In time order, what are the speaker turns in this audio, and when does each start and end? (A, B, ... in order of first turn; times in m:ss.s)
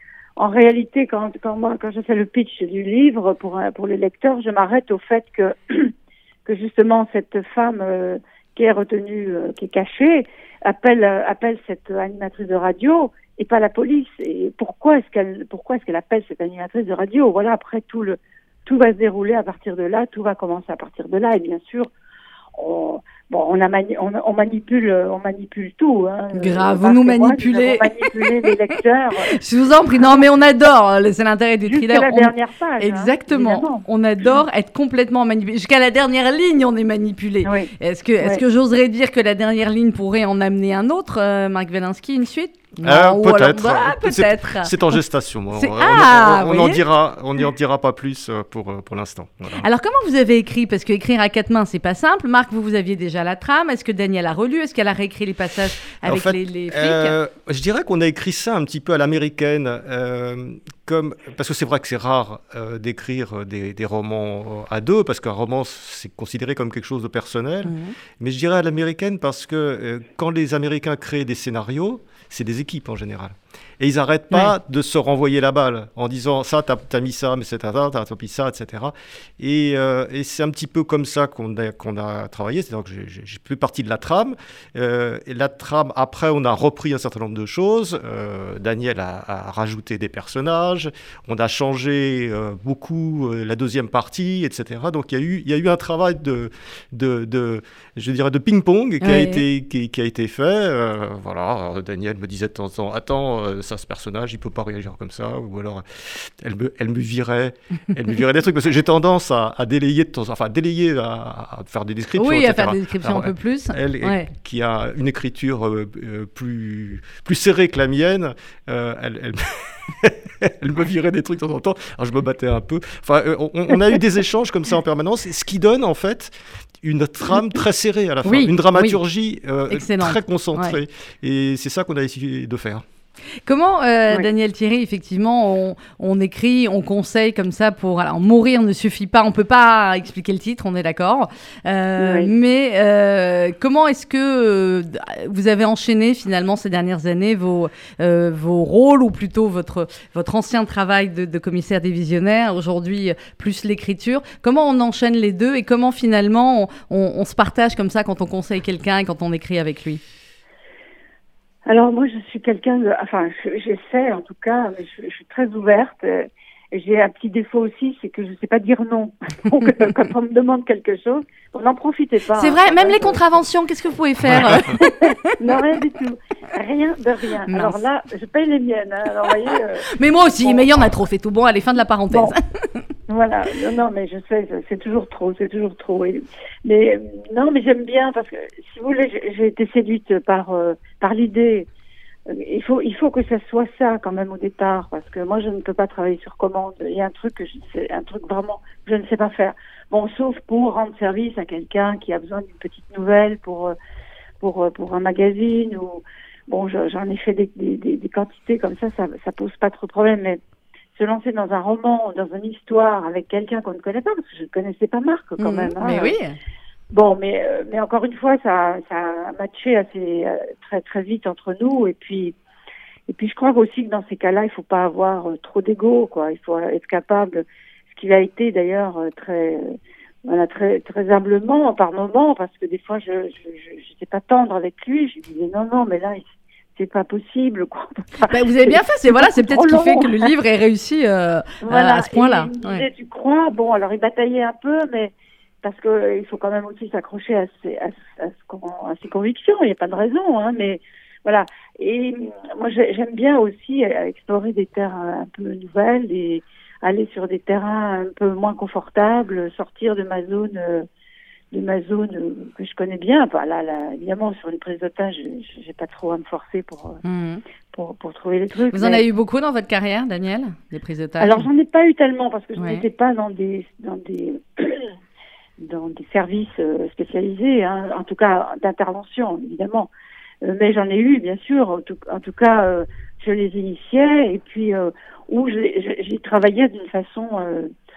0:00.4-0:05.9 A
0:06.5-0:21.9 A
0:22.6-0:29.4 A
0:26.3-0:28.5 B
0:29.2-0:44.8 B
0:30.0-0:30.2 A
0:31.6-0:33.8 A
0:37.4-0:38.4 A
0:42.8-0:49.7 C
0:45.5-0:46.8 B
0:49.6-0:57.2 B
0:56.0-2:12.8 C
1:07.6-1:07.9 B
1:39.0-1:39.4 B
1:52.2-1:54.3 B
2:08.2-2:09.0 B
2:09.7-2:10.8 B
2:13.5-2:40.0 B
2:22.0-2:22.3 A
2:41.7-2:53.4 A
2:52.4-2:55.3 B
2:54.3-2:54.6 C
2:54.7-2:59.9 A
2:57.5-2:57.8 B
2:59.9-3:02.7 B
3:00.4-3:00.8 A
3:03.1-3:11.7 A
3:12.3-3:23.8 A
3:24.4-3:30.4 A
3:31.0-3:36.2 A
3:35.4-3:36.4 B
3:36.9-3:42.3 A
3:43.1-3:56.2 A
3:56.8-4:00.3 A
3:58.2-4:02.9 B
4:01.6-4:05.1 A
4:05.6-4:20.9 A
4:21.5-4:27.0 A
4:27.0-4:27.4 B
4:27.7-4:29.0 A
4:28.7-4:31.5 B
4:31.2-4:34.9 A
4:32.6-4:32.8 B
4:35.6-4:39.9 A
4:40.4-4:47.7 A